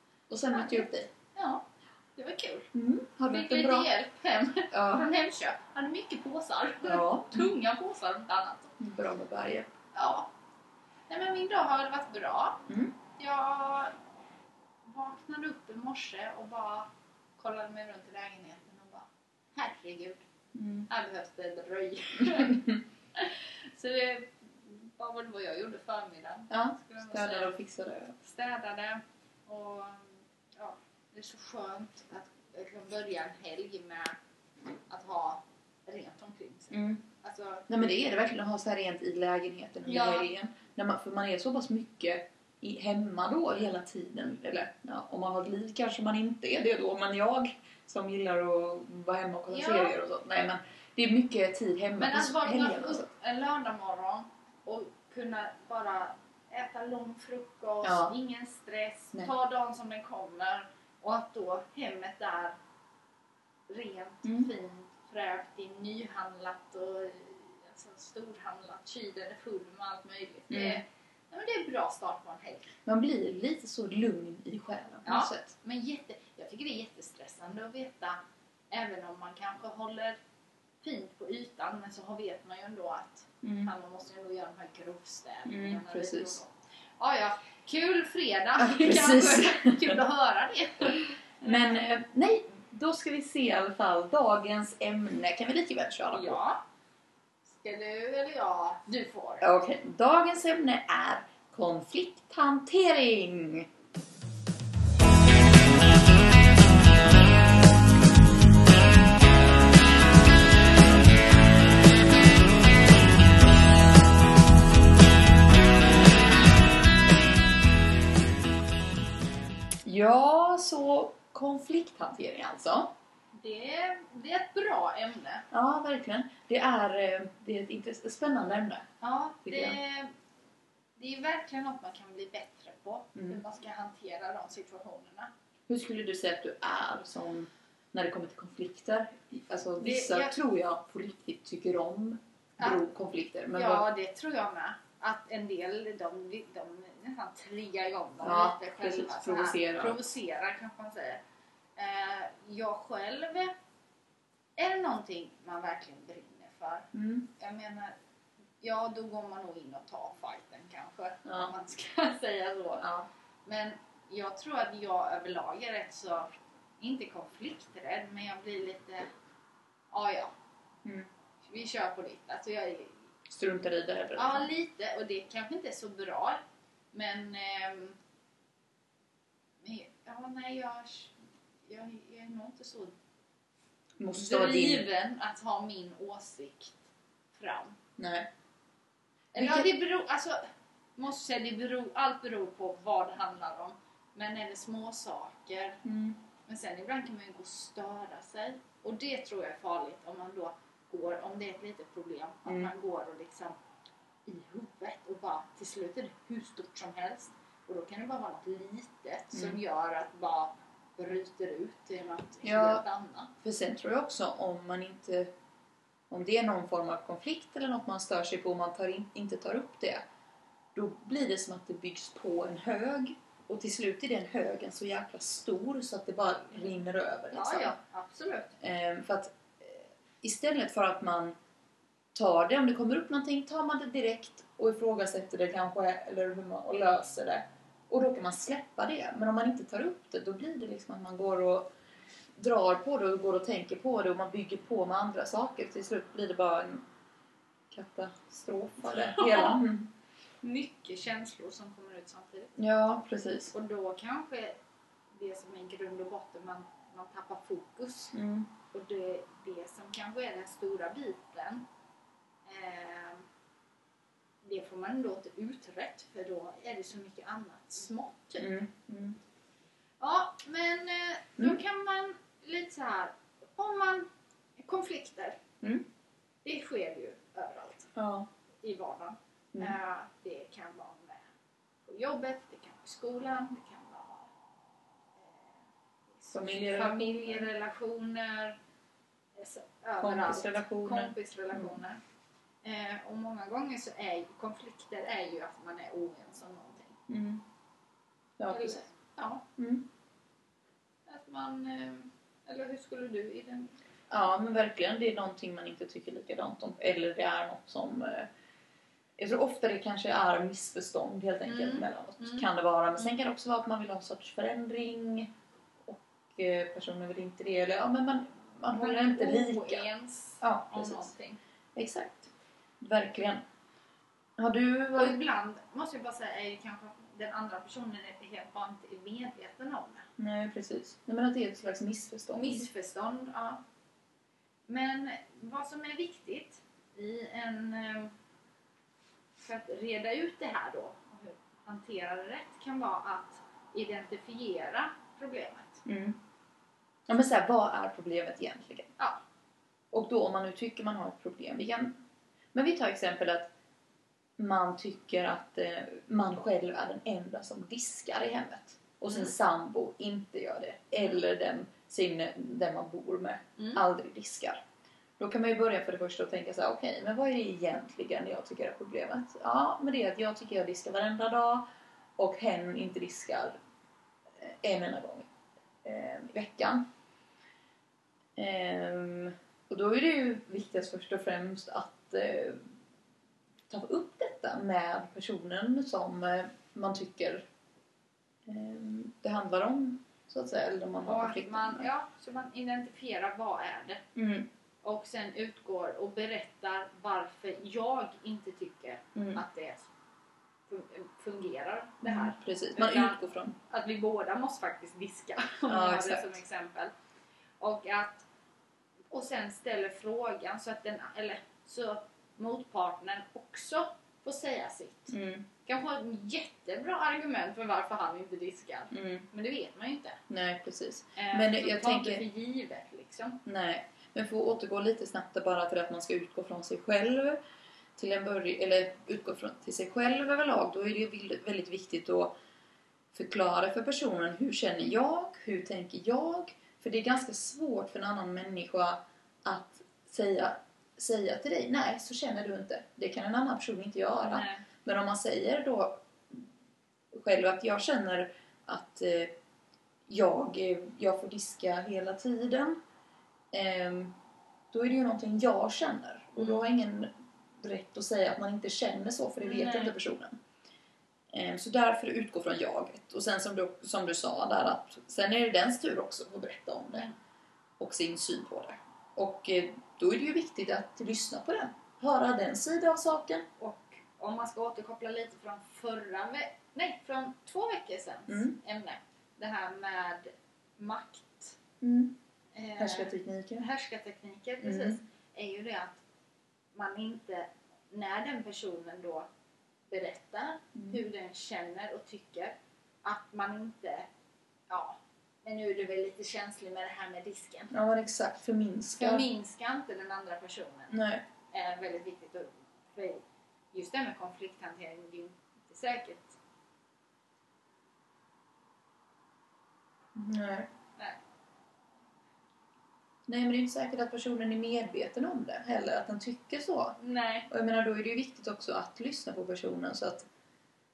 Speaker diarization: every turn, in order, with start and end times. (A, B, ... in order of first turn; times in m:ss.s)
0:00.3-0:01.1 A
0:00.5-0:01.6 B
0:02.2-0:02.7 B
0:02.7-0:03.9 A
0:03.3-0:08.7 B
0:04.7-0:05.0 A
0:06.8-0:07.5 A
0:08.8-0:09.7 A
0:09.9-0:10.3 B
0:11.1-0:12.6 B
0:12.7-0:12.9 A
0:13.2-0:13.9 B
0:14.8-0:16.9 B
0:17.4-0:20.2 B
0:20.5-0:20.9 A
0:20.9-0:27.5 B
0:22.3-0:22.7 A
0:26.5-0:28.2 A
0:28.2-0:34.2 B
0:34.9-0:37.8 B
0:36.7-0:37.0 A
0:37.7-0:53.1 A
0:39.8-0:40.3 B
0:49.5-0:50.0 B
0:52.0-1:02.5 B
0:57.8-0:58.1 A
1:03.7-1:12.7 B
1:10.5-1:10.8 A
1:12.8-1:15.5 A
1:15.0-1:18.2 B
1:18.7-1:20.2 B
1:20.8-1:31.8 B
1:23.4-1:23.7 A
1:25.5-1:26.4 A
1:28.6-1:30.0 A
1:31.4-1:36.4 A
1:36.1-1:36.6 B
1:37.5-1:39.5 B
1:39.4-1:43.7 A
1:59.8-2:02.9 A
2:03.4-2:05.4 B
2:05.5-2:08.8 A
2:09.0-2:10.1 B
2:09.4-2:09.8 A
2:11.0-2:15.3 B
2:15.7-2:23.8 A
2:19.8-2:20.3 B
2:23.5-2:31.2 B
2:28.2-2:30.0 A
2:31.8-2:33.5 B
2:34.6-2:37.9 B
2:36.9-2:37.3 A
2:38.6-2:42.9 B
2:41.2-2:41.5 A
2:42.8-2:43.1 A
2:43.4-2:49.1 B
2:49.9-2:50.3 B
2:51.4-2:53.0 B
2:53.3-2:54.5 A
2:54.2-2:56.4 B
2:56.9-2:58.0 B
2:59.6-3:01.1 B
3:01.7-3:02.9 B
3:04.0-3:04.8 A
3:04.2-3:06.8 B
3:07.3-3:07.8 B
3:08.0-3:08.3 A
3:09.3-3:10.4 B
3:09.4-3:09.7 A
3:11.0-3:15.8 B
3:15.8-3:16.2 A
3:16.5-3:23.6 B
3:22.4-3:22.7 A
3:24.3-3:33.3 B
3:29.3-3:29.6 A
3:32.4-3:32.8 A
3:33.4-3:35.3 A
3:36.1-3:40.0 A
3:40.7-3:47.7 A
3:47.3-3:48.5 B
3:48.6-3:51.3 A
3:52.1-4:01.6 A
4:02.4-4:06.8 A
4:07.7-4:09.9 A
4:08.9-4:09.6 B
4:10.4-4:12.6 B
4:12.6-4:13.5 A
4:13.5-4:14.6 B
4:15.1-4:18.1 B
4:18.1-4:18.5 A
4:18.7-4:21.6 B
4:22.4-4:23.2 B
4:24.4-4:28.5 B
4:28.4-4:29.2 A
4:30.0-4:34.1 B
4:34.6-4:35.4 B
4:36.4-4:37.9 B
4:38.0-4:38.3 A
4:38.6-4:41.3 B
4:41.8-4:44.3 B
4:45.2-4:45.5 B
4:46.1-4:48.6 B
4:46.3-4:47.5 A
4:49.4-4:52.0 B
4:50.0-4:51.8 A
4:52.6-4:57.0 B
4:57.1-4:57.4 A
4:58.4-4:58.8 A
4:58.5-4:59.4 B
4:59.6-4:59.8 A
5:01.1-5:03.7 B
5:04.1-5:08.3 A
5:09.2-5:15.3 A
5:11.5-5:12.5 B
5:15.8-5:19.8 A
5:18.7-5:21.4 B
5:20.4-5:21.1 A
5:21.7-5:23.4 A
5:24.4-5:25.2 A
5:24.9-5:30.1 B
5:30.2-5:32.7 A
5:32.3-5:33.6 B
5:34.7-5:38.1 B
5:39.4-5:45.8 B
5:45.8-5:46.2 A
5:47.1-5:48.9 A
5:49.9-5:52.0 A
5:52.5-5:53.5 A
5:54.4-6:04.6 A
5:59.1-5:59.3 B
6:03.6-6:03.8 B
6:05.2-6:11.6 A
6:12.2-6:13.6 A
6:14.4-6:15.3 A
6:15.8-6:16.8 A
6:18.4-6:22.6 A
6:23.7-6:27.5 A
6:28.4-6:31.9 A
6:31.0-6:34.0 B
6:34.2-6:34.5 A
6:34.8-6:39.9 B
6:39.1-6:39.4 A
6:40.7-6:46.9 B
6:42.0-6:43.6 A
6:45.7-6:46.4 A
6:47.6-6:48.2 B
6:49.1-7:00.2 B
6:55.1-6:55.4 A
6:58.9-6:59.2 A
7:00.3-7:02.2 A
7:01.2-7:03.4 B
7:03.4-7:07.4 A
7:08.0-7:12.3 A
7:13.1-7:26.4 A
7:24.3-7:24.6 B
7:27.1-7:29.3 A
7:30.1-7:32.8 A
7:33.5-7:34.1 A
7:34.7-7:40.3 A
7:36.4-7:36.7 B
7:39.4-7:39.9 B
7:41.3-7:47.1 A
7:47.8-7:53.4 A
7:53.6-8:01.6 B
7:58.3-7:58.6 A
8:01.8-8:02.2 A
8:02.5-8:06.0 B
8:02.8-8:03.6 A
8:04.6-8:05.0 A
8:06.7-8:09.3 B
8:09.9-8:14.1 B
8:14.7-8:17.7 B
8:17.7-8:19.3 A
8:19.0-8:21.0 B
8:20.9-8:21.2 A
8:21.5-8:23.2 B
8:23.7-8:26.4 B
8:30.1-8:30.7 A
8:33.3-8:37.0 A
8:37.0-8:37.5 B
8:37.5-8:40.2 A